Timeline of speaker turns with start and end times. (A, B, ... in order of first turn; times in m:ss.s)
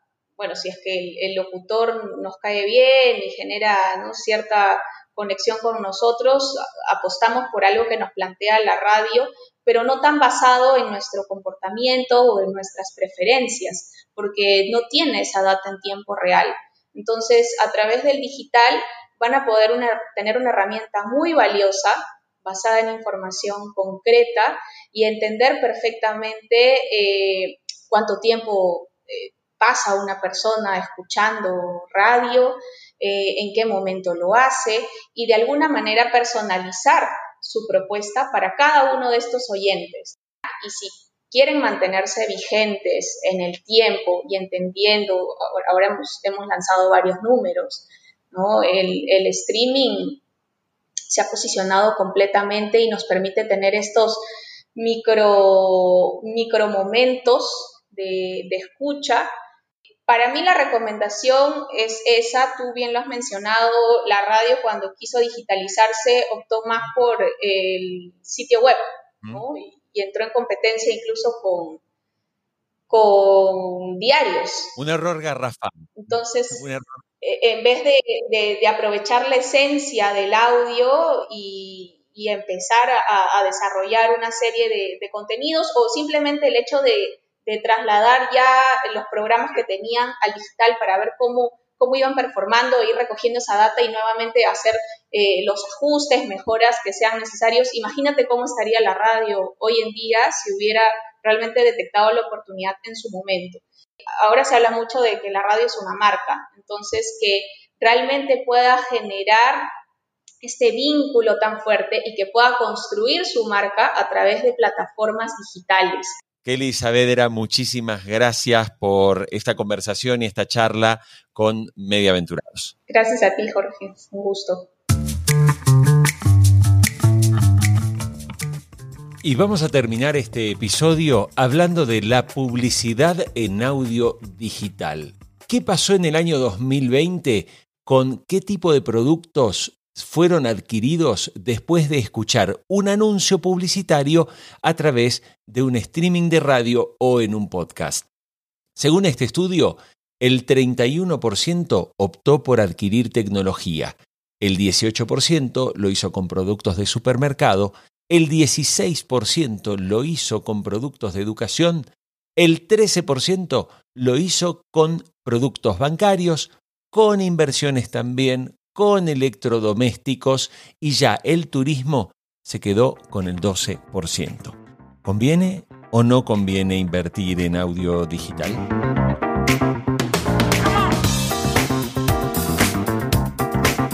0:00.4-0:50.2 A
0:51.1-0:54.2 A
0:54.7-0:59.3 A
1:00.1-1:11.8 A
1:12.9-1:14.8 A
1:14.8-1:15.9 B
1:16.0-1:16.6 A
1:16.5-1:17.0 B
1:17.2-1:43.6 A
1:44.2-1:49.7 A
1:50.4-1:56.1 A
1:56.4-2:02.7 B
2:02.9-2:04.7 A
2:09.2-2:28.1 B
2:28.8-2:58.6 B